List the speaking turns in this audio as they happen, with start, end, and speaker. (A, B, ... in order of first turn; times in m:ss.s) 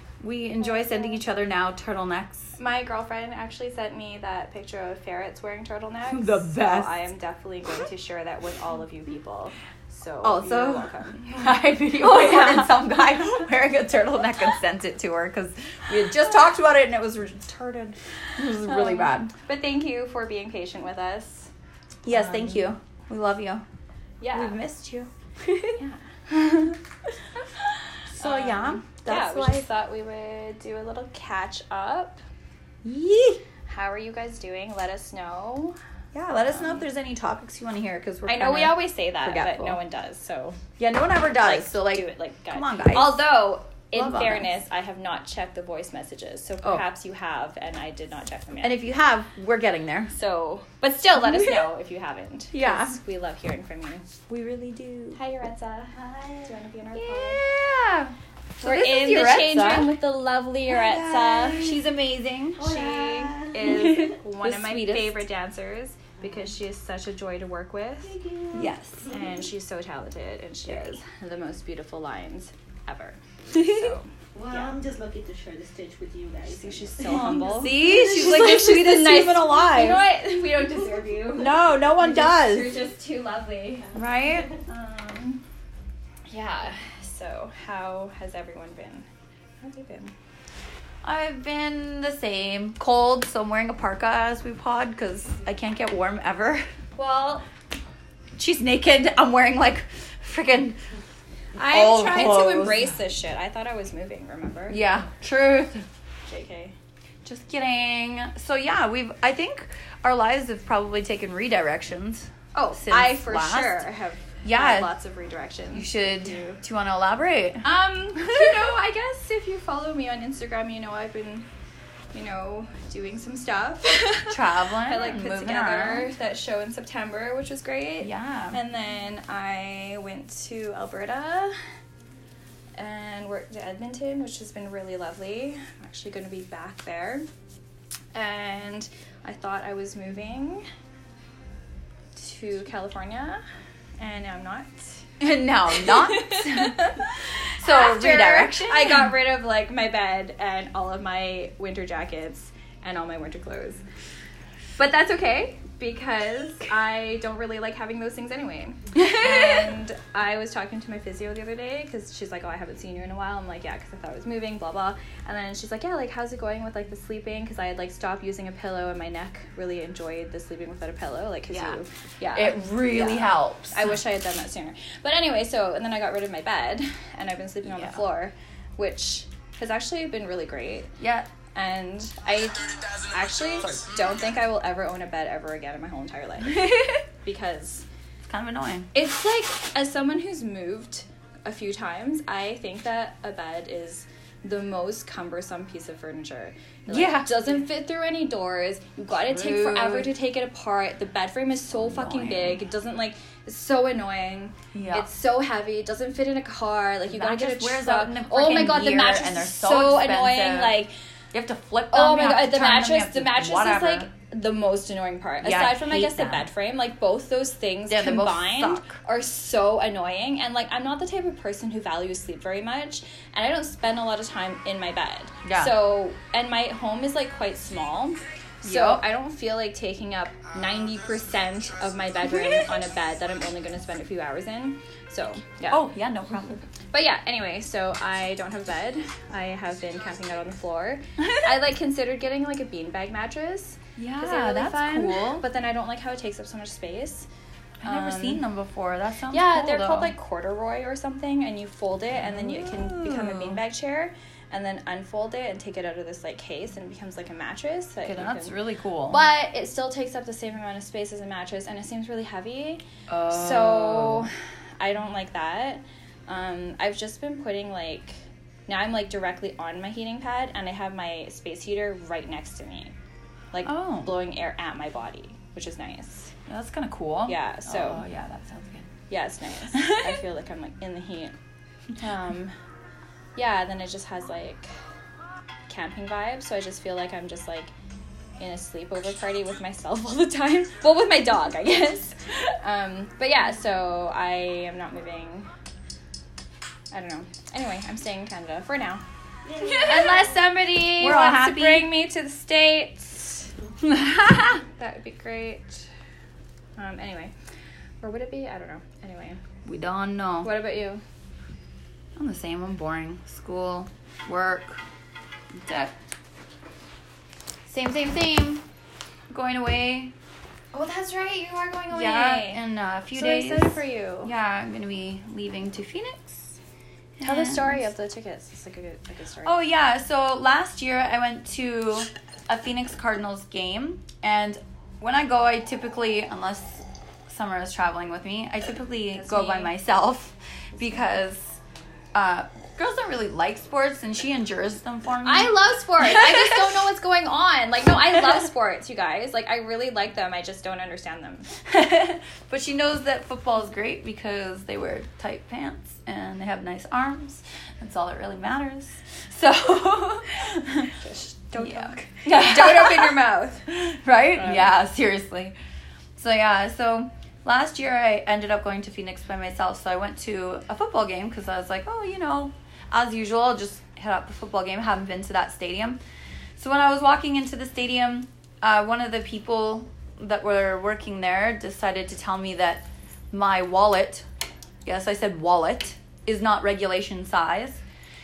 0:00.2-0:02.6 A
0:00.6-0:01.2 B
0:02.6-0:11.3 B
0:06.1-0:07.0 A
0:10.2-0:19.3 A
0:12.0-0:13.2 B
0:18.6-0:21.5 B
0:22.0-0:23.6 A
0:22.1-0:22.7 B
0:24.2-0:24.6 B
0:24.3-0:25.8 A
0:25.8-0:26.8 B
0:28.2-0:29.7 A
0:28.2-0:32.2 B
0:32.8-0:33.4 A
0:33.7-0:35.8 B
0:36.1-0:39.8 A
0:36.4-0:36.9 B
0:38.3-0:40.6 B
0:40.8-0:43.2 A
0:41.4-0:48.8 B
0:43.9-0:44.5 A
0:48.6-0:50.1 A
0:50.1-0:54.1 B
0:51.1-0:51.6 A
0:52.5-0:53.0 A
0:54.3-0:55.2 A
0:55.2-0:56.0 B
0:56.0-0:56.5 C
0:56.5-0:57.4 B
0:57.0-1:00.0 A
0:58.6-1:01.7 B
1:00.7-1:02.8 A
1:00.9-1:01.6 C
1:02.6-1:04.1 C
1:02.6-1:08.1 B
1:03.6-1:05.2 A
1:08.0-1:09.2 C
1:08.5-1:09.1 A
1:09.1-1:14.8 B
1:10.7-1:11.0 A
1:13.5-1:14.0 A
1:14.4-1:18.8 C
1:16.5-1:24.0 B
1:17.1-1:20.0 A
1:21.4-1:22.8 A
1:23.9-1:24.5 A
1:24.6-1:25.4 B
1:26.3-1:29.1 B
1:29.6-1:30.1 B
1:31.0-1:36.6 A
1:37.0-1:37.4 B
1:38.4-1:40.8 A
1:41.6-1:44.8 B
1:41.7-1:42.9 A
1:44.7-1:45.8 A
1:46.3-1:46.8 B
1:47.2-1:53.9 A
1:52.5-1:56.6 B
1:54.4-1:54.9 A
1:55.7-1:57.6 A
1:57.6-2:01.5 B
1:58.2-1:58.6 A
2:02.1-2:11.5 B
2:04.3-2:06.1 A
2:08.0-2:08.6 A
2:12.8-2:17.3 B
2:18.1-2:20.6 B
2:22.2-2:23.4 B
2:24.0-2:25.0 B
2:25.2-2:26.8 A
2:25.7-2:33.8 B
2:27.6-2:29.2 A
2:34.8-3:00.9 B
2:39.0-2:39.7 A
2:51.5-2:51.8 A
2:52.3-2:54.0 A
2:57.6-2:58.0 A
3:01.0-3:01.3 A
3:01.6-3:07.8 B
3:08.3-3:08.9 A
3:08.9-3:30.9 B
3:16.9-3:17.6 A
3:19.3-3:20.1 A
3:21.8-3:22.6 A
3:24.7-3:25.1 A
3:27.1-3:30.8 A
3:31.3-3:34.1 A
3:31.9-3:55.9 B
3:35.4-3:36.5 A
3:37.9-3:39.0 A
3:45.4-3:45.8 A
3:48.6-3:49.0 A
3:55.7-3:56.6 A
3:56.9-4:07.3 B
4:01.2-4:01.5 A
4:04.0-4:05.4 A
4:07.8-4:10.1 A
4:07.8-4:08.4 B
4:09.3-4:18.6 B
4:12.2-4:13.6 A
4:18.0-4:19.3 A
4:19.1-4:28.1 B
4:23.1-4:24.3 A
4:28.7-4:32.9 B
4:33.5-4:36.3 B
4:33.6-4:34.2 A
4:36.5-4:38.9 A
4:37.3-4:38.0 B
4:39.1-4:41.4 B
4:39.7-4:40.2 A
4:42.0-4:42.5 B
4:43.4-4:44.7 B
4:45.7-4:47.7 B
4:48.4-4:55.5 B
4:56.9-4:59.0 B
4:59.5-5:00.2 C
4:59.6-5:03.5 B
5:01.0-5:01.9 A
5:03.8-5:04.6 A
5:04.6-5:05.9 B
5:06.8-5:07.3 B
5:08.0-5:09.4 B
5:09.6-5:10.6 A
5:10.4-5:11.0 B
5:12.2-5:14.8 A
5:15.6-5:15.9 A
5:17.7-5:18.6 A
5:19.3-5:20.1 A
5:20.7-5:24.3 B
5:21.9-5:26.6 A
5:27.2-5:27.9 A
5:27.2-5:29.6 B
5:29.4-5:41.6 A
5:39.1-5:39.7 B
5:42.1-5:46.8 A
5:45.2-5:51.5 B
5:51.7-6:00.9 A
6:00.9-6:03.7 B
6:01.5-6:05.6 A
6:04.4-6:04.7 B
6:06.2-6:16.0 A
6:16.6-6:24.2 A
6:24.8-6:27.8 A